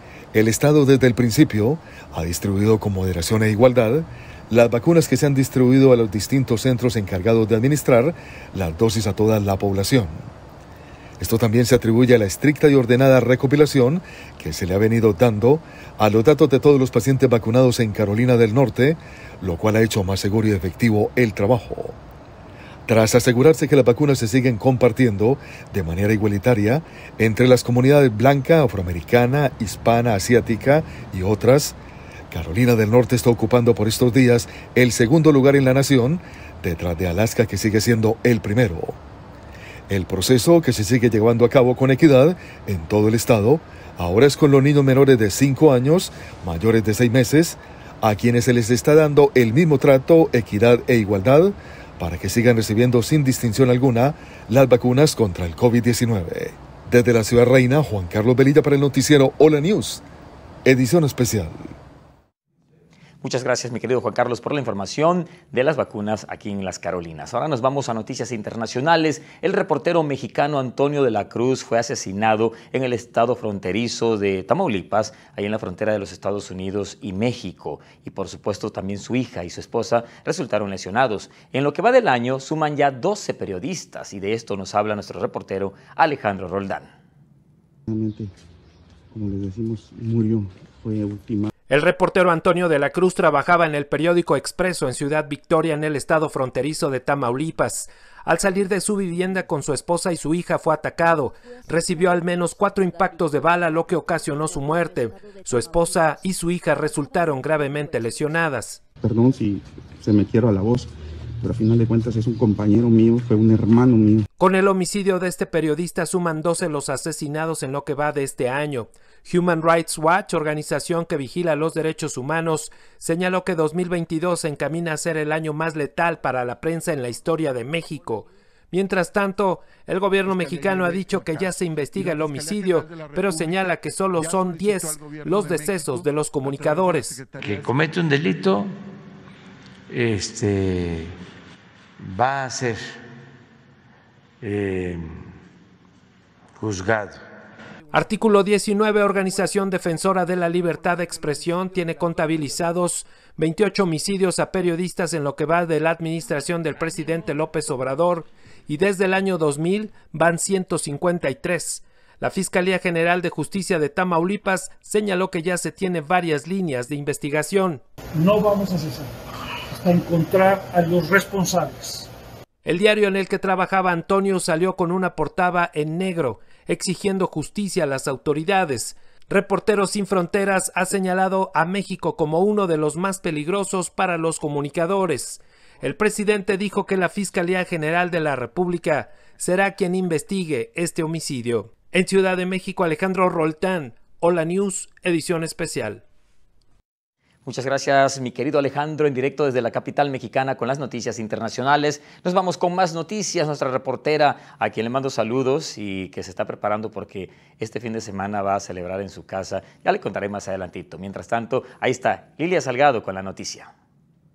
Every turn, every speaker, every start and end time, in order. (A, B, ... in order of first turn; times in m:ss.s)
0:00.3-0:10.3 A
0:11.2-0:22.0 A
0:22.9-0:31.8 A
0:32.3-0:39.0 A
0:39.9-1:00.0 A
1:00.6-1:01.7 A
1:03.2-1:26.9 B
1:27.9-1:28.3 C
1:29.1-1:31.5 C
1:31.7-1:48.8 D
1:49.0-1:54.3 C
1:54.4-2:17.3 D
2:17.4-2:18.7 E
2:19.9-2:21.2 E
2:22.0-2:23.0 E
2:24.4-2:25.3 E
2:26.6-2:27.2 E
2:27.9-2:47.8 D
2:48.2-2:49.0 F
2:49.8-2:52.0 F
2:52.6-3:16.0 D
3:17.4-3:33.7 B